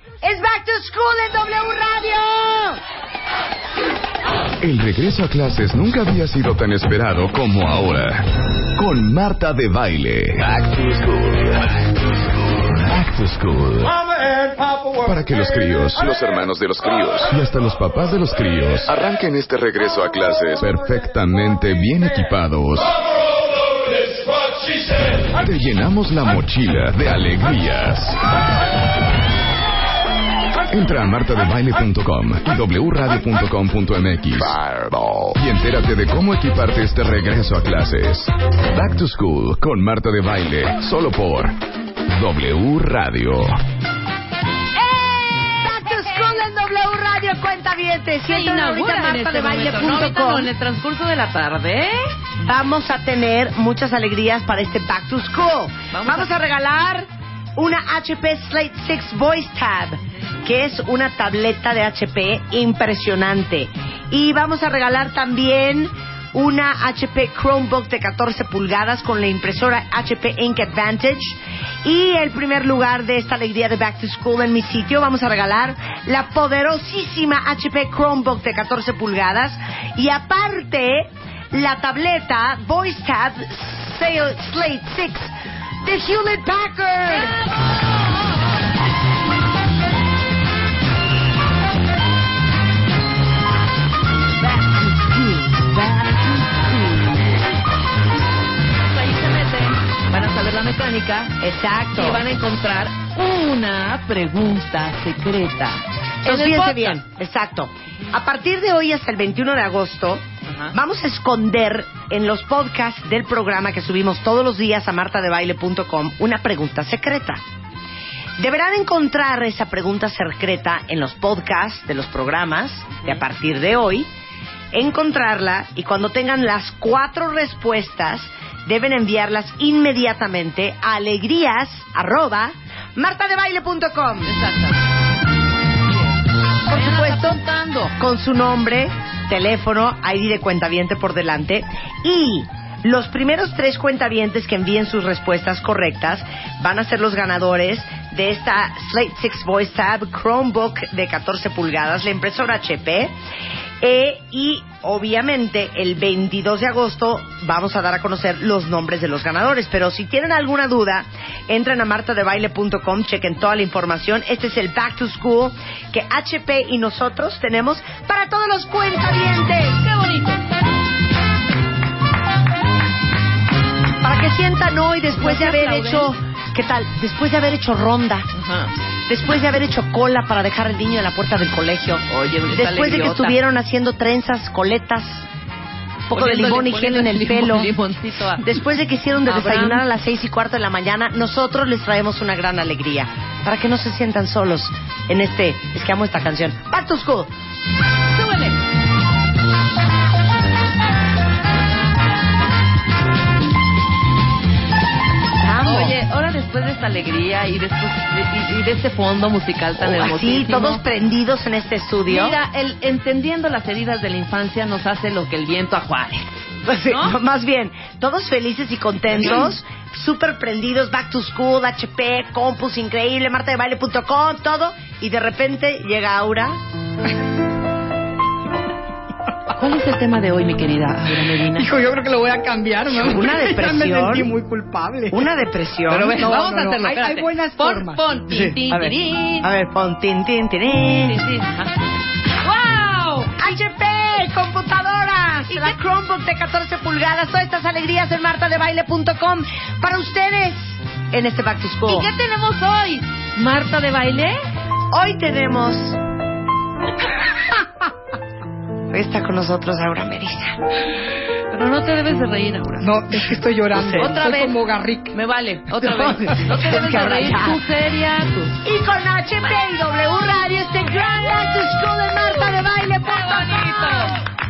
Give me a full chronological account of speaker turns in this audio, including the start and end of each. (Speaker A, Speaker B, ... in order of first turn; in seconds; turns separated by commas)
Speaker A: 0.2-2.8, Speaker B: 4.6-14.0, Speaker B: 14.9-23.0, Speaker B: 24.9-28.2, Speaker B: 30.7-43.6, Speaker A: 44.7-50.5, Speaker C: 48.3-52.1, Speaker A: 52.4-87.4, Speaker C: 55.9-56.3, Speaker C: 94.4-97.3, Speaker C: 98.9-101.4, Speaker A: 101.4-102.2, Speaker C: 101.9-107.0, Speaker A: 106.2-117.4, Speaker C: 110.5-110.7, Speaker A: 118.4-124.1, Speaker A: 124.7-134.4, Speaker C: 134.2-134.8, Speaker C: 136.6-137.9, Speaker A: 136.7-137.4, Speaker A: 138.0-153.1, Speaker A: 153.8-169.9, Speaker C: 169.8-170.4, Speaker A: 174.0-178.3, Speaker C: 175.1-176.1, Speaker C: 178.3-178.7, Speaker A: 179.1-185.3, Speaker C: 182.1-183.4, Speaker A: 186.1-187.7, Speaker C: 186.1-188.4, Speaker A: 188.4-197.3, Speaker C: 189.2-189.8, Speaker C: 198.1-198.6, Speaker A: 205.4-205.9, Speaker C: 205.6-210.8, Speaker A: 209.8-212.4, Speaker C: 212.1-217.2, Speaker A: 216.6-226.6, Speaker C: 229.5-231.7, Speaker D: 231.5-235.3, Speaker A: 232.9-234.3, Speaker A: 235.1-236.3, Speaker C: 235.9-239.5, Speaker D: 236.1-238.0, Speaker A: 238.3-241.2, Speaker C: 241.0-241.7, Speaker C: 242.4-243.3, Speaker A: 243.3-252.1, Speaker C: 251.8-254.4, Speaker A: 254.9-256.0, Speaker A: 258.9-260.6, Speaker C: 261.5-262.9, Speaker D: 262.8-265.2, Speaker C: 263.8-264.6, Speaker C: 265.1-268.6, Speaker A: 265.9-267.6, Speaker A: 268.6-274.1, Speaker C: 273.2-274.2